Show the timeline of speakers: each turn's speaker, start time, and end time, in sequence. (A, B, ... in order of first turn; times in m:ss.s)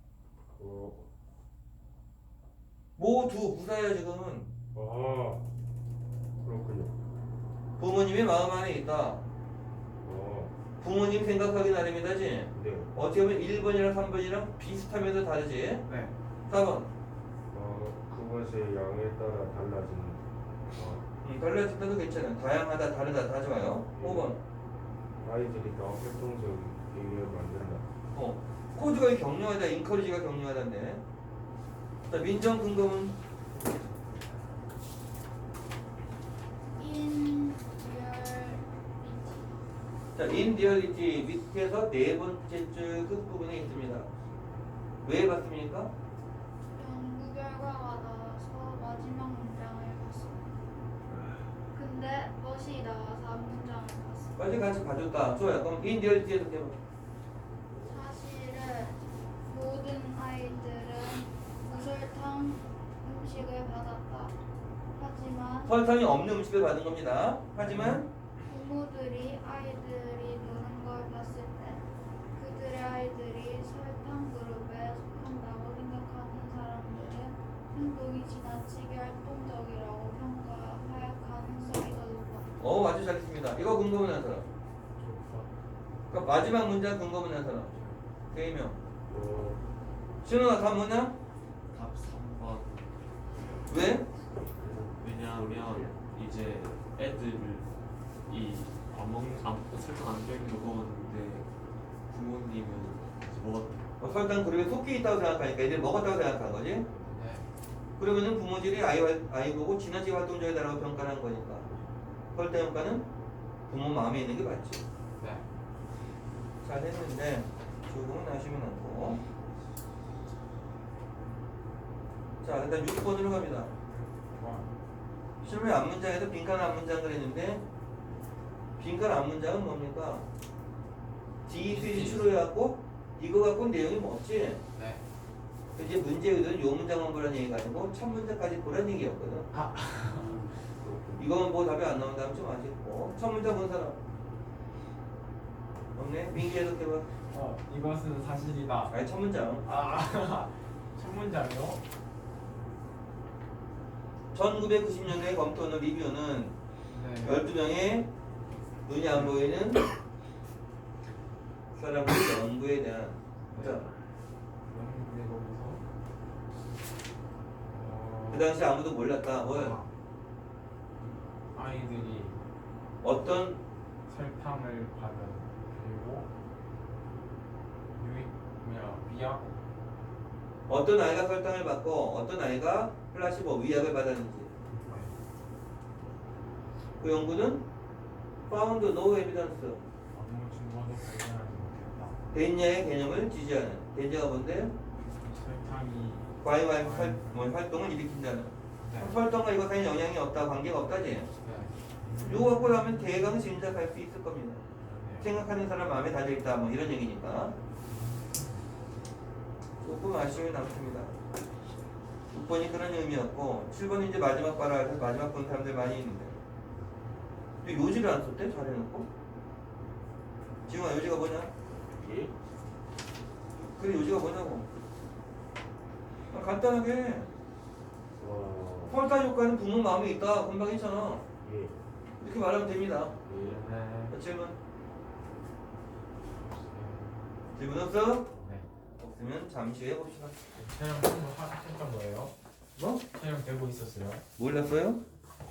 0:00.5-0:01.0 A
0:03.0-0:04.5 B
0:04.7-0:05.4 A
0:06.4-0:07.0 A
0:07.8-0:09.2 B
0:10.0-0:10.5 A
0:10.8-0:15.8 B
0:12.5-0:12.9 A
0:15.8-0:16.1 C
0:16.5-0:16.9 B
0:17.5-0:21.1 A
0:21.2-0:24.4 B
0:23.9-0:24.3 A
0:25.2-0:27.9 A
0:28.1-0:31.0 B
0:32.1-0:33.2 B
0:36.8-0:39.6 D
0:40.2-0:44.1 B
0:45.0-0:45.9 B
0:46.7-0:50.5 D
0:51.7-0:54.4 D
0:54.4-0:56.8 B
0:57.7-0:58.0 A
0:57.8-1:04.4 D
1:05.0-1:05.7 D
1:05.6-1:08.1 B
1:07.6-1:08.1 C
1:08.4-1:11.8 D
1:12.4-1:22.5 D
1:22.6-1:24.5 B
1:25.0-1:25.5 C
1:26.1-1:27.8 B
1:27.7-1:28.0 C
1:28.3-1:28.8 B
1:29.1-1:29.6 A
1:30.2-1:31.2 B
1:31.7-1:33.1 E
1:33.7-1:34.1 B
1:34.4-1:35.1 A
1:34.9-1:37.7 E
1:38.3-1:41.5 E
1:42.1-1:43.8 E
1:44.0-1:46.9 B
1:47.0-1:47.5 C
1:48.0-1:51.7 B
1:52.3-1:53.1 B
1:53.7-1:54.8 B
1:55.2-1:55.5 C
1:56.6-1:59.2 B
2:02.4-2:03.7 B
2:03.9-2:04.7 C
2:05.4-2:07.6 B
2:08.8-2:10.3 B
2:11.4-2:14.6 B
2:11.5-2:12.3 C
2:14.7-2:15.0 C
2:15.7-2:19.5 B
2:19.5-2:20.4 C
2:20.0-2:21.4 A
2:21.2-2:24.0 B
2:25.9-2:27.1 B
2:27.2-2:28.9 C
2:28.9-2:29.6 B
2:29.6-2:31.8 C
2:34.3-2:36.6 B
2:36.9-2:37.4 C
2:37.2-2:38.1 B
2:38.8-2:39.8 B
2:41.7-2:43.9 B
2:43.5-2:43.9 C
2:44.6-2:45.8 C
2:47.6-2:48.6 C
2:48.3-2:49.8 B
2:49.4-2:49.9 C
2:51.5-2:52.4 C
2:53.0-2:53.6 B
2:54.1-2:56.3 C
2:57.9-2:59.6 C
3:00.7-3:04.5 B
3:04.7-3:05.2 C
3:07.0-3:07.6 B
3:08.5-3:09.9 B
3:10.1-3:12.2 C
3:12.3-3:14.8 B
3:15.2-3:17.5 C
3:16.4-3:21.3 B
3:18.8-3:19.2 C
3:21.4-3:23.8 C
3:22.2-3:24.6 B
3:24.8-3:25.4 C
3:25.2-3:27.6 B
3:27.8-3:28.6 C
3:29.8-3:31.2 B
3:32.3-3:36.4 B
3:37.6-3:39.1 B
3:40.7-3:41.5 B
3:41.9-3:42.3 A
3:43.8-3:44.7 B
3:46.3-3:47.3 B
3:48.2-3:49.0 A
3:48.9-3:51.2 B
3:51.4-3:51.8 A
3:52.2-3:53.2 B
3:53.2-3:53.6 A
3:53.3-3:54.2 C
3:54.1-3:54.6 B
3:56.3-3:57.5 C
3:57.6-3:58.3 B
3:58.4-3:58.7 C
3:59.0-4:00.5 B
4:00.6-4:02.3 C
4:02.8-4:03.0 B
4:03.1-4:04.2 C
4:04.4-4:05.0 B